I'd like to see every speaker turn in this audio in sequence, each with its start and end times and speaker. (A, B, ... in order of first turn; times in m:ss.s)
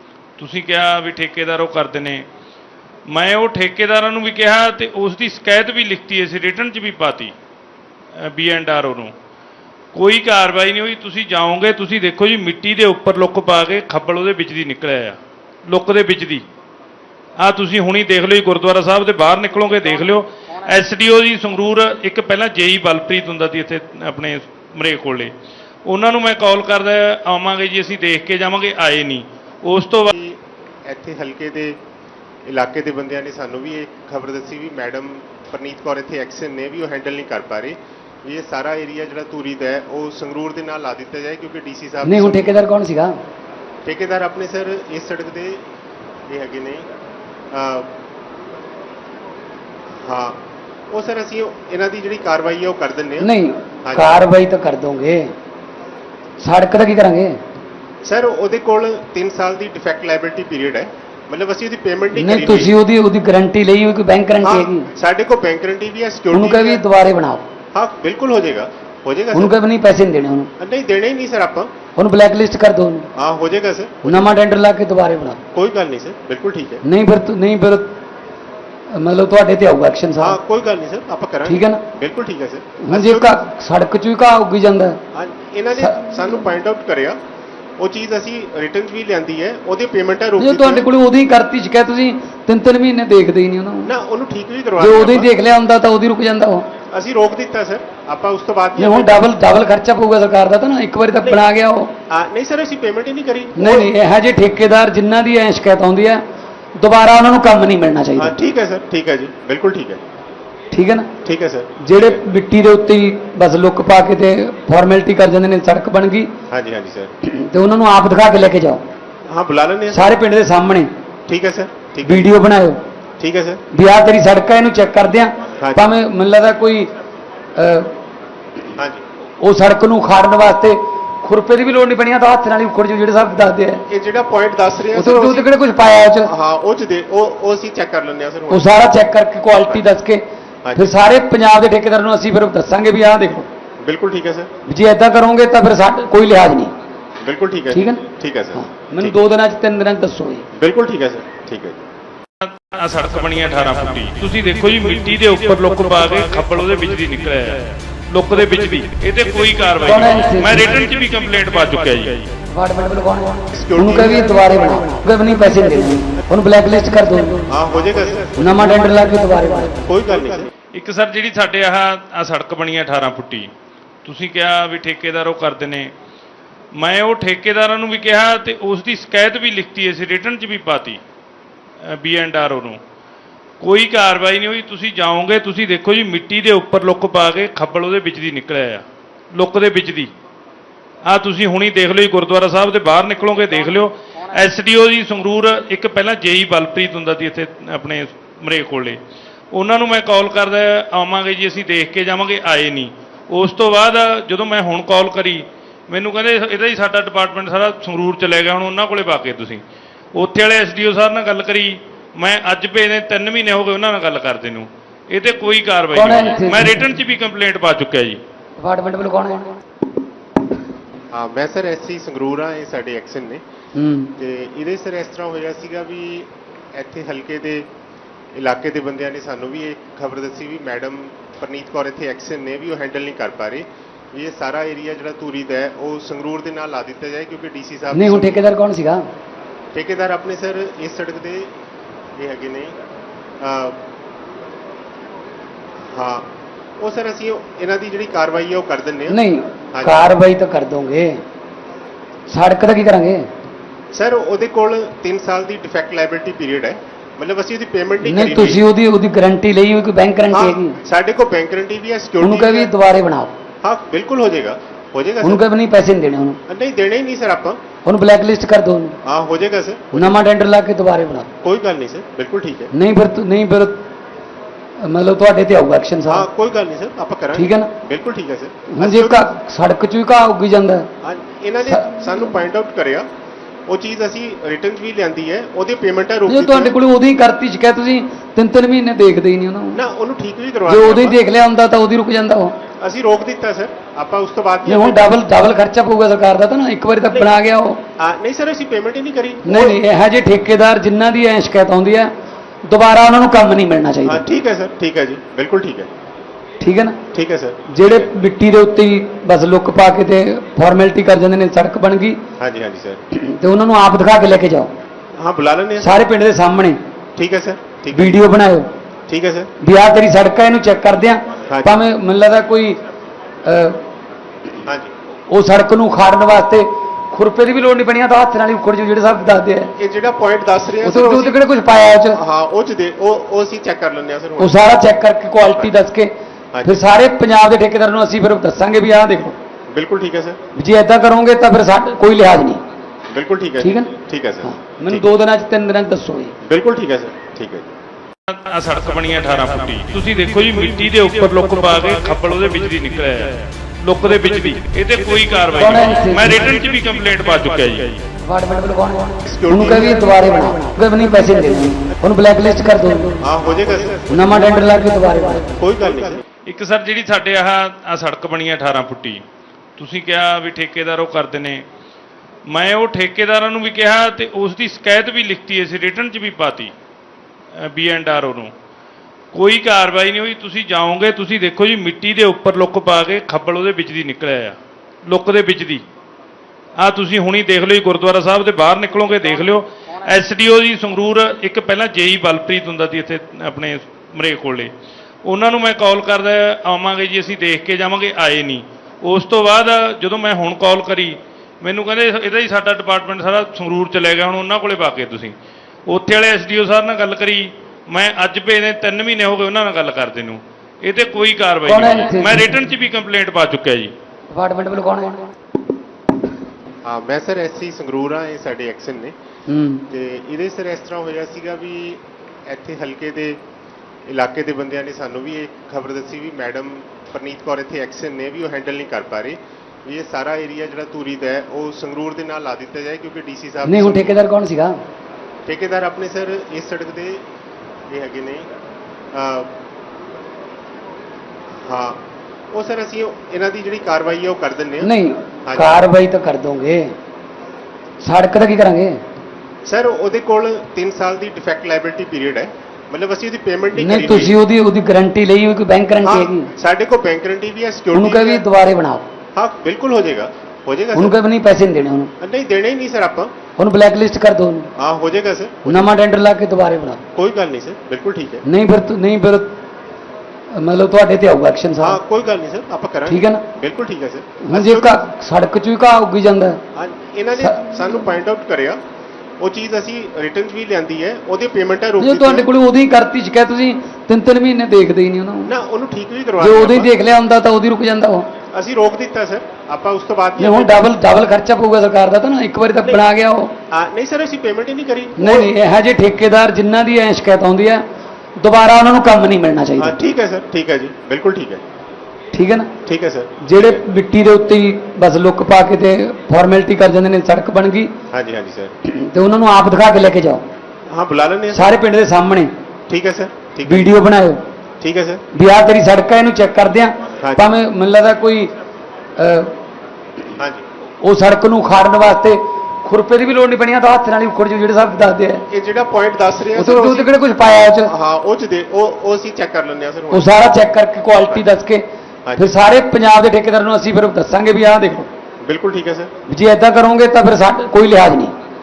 0:00.4-0:02.3 A
0:03.1-0:07.3 A
0:08.2-0:09.1 A
0:09.9-0:16.5 A
0:17.4-0:25.3 A
0:25.8-0:30.1 A
0:30.1-0:31.8 B
0:32.4-0:42.6 B
0:42.0-0:43.2 C
0:43.8-0:45.6 B
0:46.3-0:46.9 B
0:47.5-0:47.9 B
0:50.0-0:53.3 B
0:53.2-0:55.3 C
0:53.8-0:54.2 B
0:56.4-0:57.4 C
0:58.0-1:02.8 B
1:02.2-1:04.9 C
1:04.4-1:06.8 B
1:06.3-1:07.4 C
1:07.7-1:09.6 B
1:09.3-1:10.5 C
1:10.6-1:11.7 B
1:12.0-1:13.1 C
1:13.2-1:14.3 B
1:14.0-1:15.4 C
1:15.5-1:16.8 B
1:16.8-1:18.0 C
1:18.9-1:20.4 C
1:20.2-1:23.4 B
1:21.4-1:21.8 C
1:22.8-1:25.0 C
1:25.1-1:27.2 B
1:27.8-1:30.9 B
1:30.4-1:33.9 C
1:33.9-1:35.3 B
1:34.8-1:36.7 C
1:36.9-1:39.3 B
1:38.8-1:41.9 C
1:42.1-1:43.9 B
1:43.6-1:46.2 C
1:46.8-1:48.4 C
1:48.2-1:50.0 B
1:50.7-1:51.1 C
1:51.2-1:52.2 B
1:51.8-1:56.3 C
1:56.5-1:57.1 B
1:57.2-1:58.8 C
1:59.3-2:00.1 B
1:59.9-2:00.9 C
2:01.3-2:02.3 B
2:02.0-2:02.8 C
2:03.2-2:03.6 B
2:03.7-2:06.9 C
2:05.6-2:05.9 B
2:07.6-2:08.0 C
2:08.8-2:09.0 B
2:09.4-2:13.9 C
2:13.9-2:15.5 B
2:14.9-2:16.3 C
2:16.2-2:18.8 B
2:18.5-2:20.2 C
2:19.6-2:19.9 B
2:20.6-2:21.0 B
2:20.8-2:23.5 C
2:23.8-2:24.5 B
2:24.7-2:26.7 C
2:27.2-2:29.2 B
2:27.7-2:30.5 C
2:30.5-2:31.8 B
2:32.4-2:42.3 A
2:39.9-2:40.6 C
2:42.5-2:47.5 C
2:43.5-2:44.5 B
2:47.5-2:48.6 B
2:48.4-2:49.8 C
2:49.9-2:50.5 B
2:50.7-2:53.5 A
2:54.0-2:55.9 A
2:56.7-3:01.0 A
3:01.8-3:02.8 A
3:03.6-3:10.1 A
3:11.0-3:19.0 A
3:19.5-3:29.6 A
3:30.1-3:38.2 A
3:35.9-3:36.9 C
3:38.6-3:39.6 C
3:41.1-3:43.4 B
3:43.8-3:44.1 C
3:44.2-3:47.7 B
3:48.3-3:58.4 B
3:57.9-3:59.1 C
3:59.7-4:01.5 B
4:02.2-4:02.8 B
4:03.4-4:03.8 B
4:05.9-4:09.2 B
4:09.1-4:11.2 C
4:09.7-4:10.1 B
4:12.3-4:13.3 C
4:13.9-4:18.6 B
4:18.0-4:20.8 C
4:20.3-4:22.7 B
4:22.2-4:23.4 C
4:23.6-4:25.4 B
4:25.2-4:26.4 C
4:26.5-4:27.6 B
4:27.8-4:29.0 C
4:29.0-4:30.2 B
4:29.9-4:31.3 C
4:31.4-4:32.7 B
4:32.7-4:33.9 C
4:34.8-4:36.3 C
4:36.1-4:39.2 B
4:37.3-4:37.7 C
4:38.7-4:40.9 C
4:41.0-4:43.1 B
4:43.7-4:46.8 B
4:46.3-4:49.8 C
4:49.7-4:51.2 B
4:50.7-4:52.6 C
4:52.8-4:55.2 B
4:54.6-4:57.8 C
4:58.0-4:59.8 B
4:59.4-5:02.1 C
5:02.7-5:04.2 C
5:04.0-5:05.9 B
5:06.6-5:07.0 C
5:07.1-5:08.1 B
5:07.7-5:12.2 C
5:12.4-5:13.0 B
5:13.1-5:14.7 C
5:15.2-5:15.9 B
5:15.8-5:16.8 C
5:17.2-5:18.2 B
5:17.9-5:18.7 C
5:19.1-5:19.5 B
5:19.6-5:22.8 C
5:21.5-5:21.8 B
5:23.4-5:23.8 C
5:24.6-5:24.9 B
5:25.3-5:29.7 C
5:29.8-5:31.4 B
5:30.8-5:32.2 C
5:32.1-5:34.6 B
5:34.4-5:36.1 C
5:36.5-5:36.8 B
5:36.6-5:39.4 C
5:39.7-5:40.4 B
5:40.5-5:42.6 C
5:43.1-5:45.1 B
5:43.6-5:46.4 C
5:46.4-5:47.7 B
5:48.3-5:58.0 A
5:55.6-5:56.4 C
5:58.2-6:03.2 C
5:59.3-6:00.5 B
6:03.2-6:04.2 B
6:04.1-6:05.6 C
6:05.6-6:06.2 B
6:06.5-6:09.2 A
6:09.8-6:11.6 A
6:12.5-6:16.7 A
6:17.6-6:18.5 A
6:19.3-6:25.8 A
6:26.8-6:34.7 A
6:35.2-6:45.3 A
6:45.9-6:53.9 A
6:51.7-6:52.6 C
6:54.3-6:55.3 C
6:56.8-6:59.2 B
6:59.5-6:59.9 C
6:59.9-7:03.4 B
7:04.1-7:14.2 B
7:13.6-7:14.8 C
7:15.5-7:17.3 B
7:17.9-7:18.5 B
7:19.1-7:19.6 B
7:21.6-7:24.9 B
7:24.8-7:27.0 C
7:25.5-7:25.8 B
7:28.0-7:29.0 C
7:29.7-7:34.4 B
7:33.8-7:36.5 C
7:36.0-7:38.4 B
7:37.9-7:39.1 C
7:39.4-7:41.2 B
7:41.0-7:42.1 C
7:42.2-7:43.4 B
7:43.6-7:44.7 C
7:44.8-7:45.9 B
7:45.7-7:47.0 C
7:47.1-7:48.4 B
7:48.4-7:49.6 C
7:50.5-7:52.0 C
7:51.8-7:55.0 B
7:53.1-7:53.4 C
7:54.4-7:56.6 C
7:56.8-7:58.8 B
7:59.4-8:02.5 B
8:02.0-8:05.5 C
8:05.5-8:06.9 B
8:06.4-8:08.3 C
8:08.5-8:10.9 B
8:10.4-8:13.5 C
8:13.7-8:15.5 B
8:15.2-8:17.8 C
8:18.4-8:20.0 C
8:19.8-8:21.6 B
8:22.3-8:22.7 C
8:22.8-8:23.7 B
8:23.4-8:28.0 C
8:28.1-8:28.7 B
8:28.8-8:30.4 C
8:30.9-8:31.7 B
8:31.5-8:32.5 C
8:32.9-8:33.9 B
8:33.6-8:34.4 C
8:34.8-8:35.2 B
8:35.3-8:38.5 C
8:37.2-8:37.5 B
8:39.2-8:39.6 C
8:40.4-8:40.6 B
8:41.0-8:45.5 C
8:45.5-8:47.1 B
8:46.6-8:47.9 C
8:47.8-8:50.5 B
8:50.1-8:51.8 C
8:52.2-8:52.7 B
8:52.4-8:55.1 C
8:55.4-8:56.1 B
8:56.3-8:58.3 C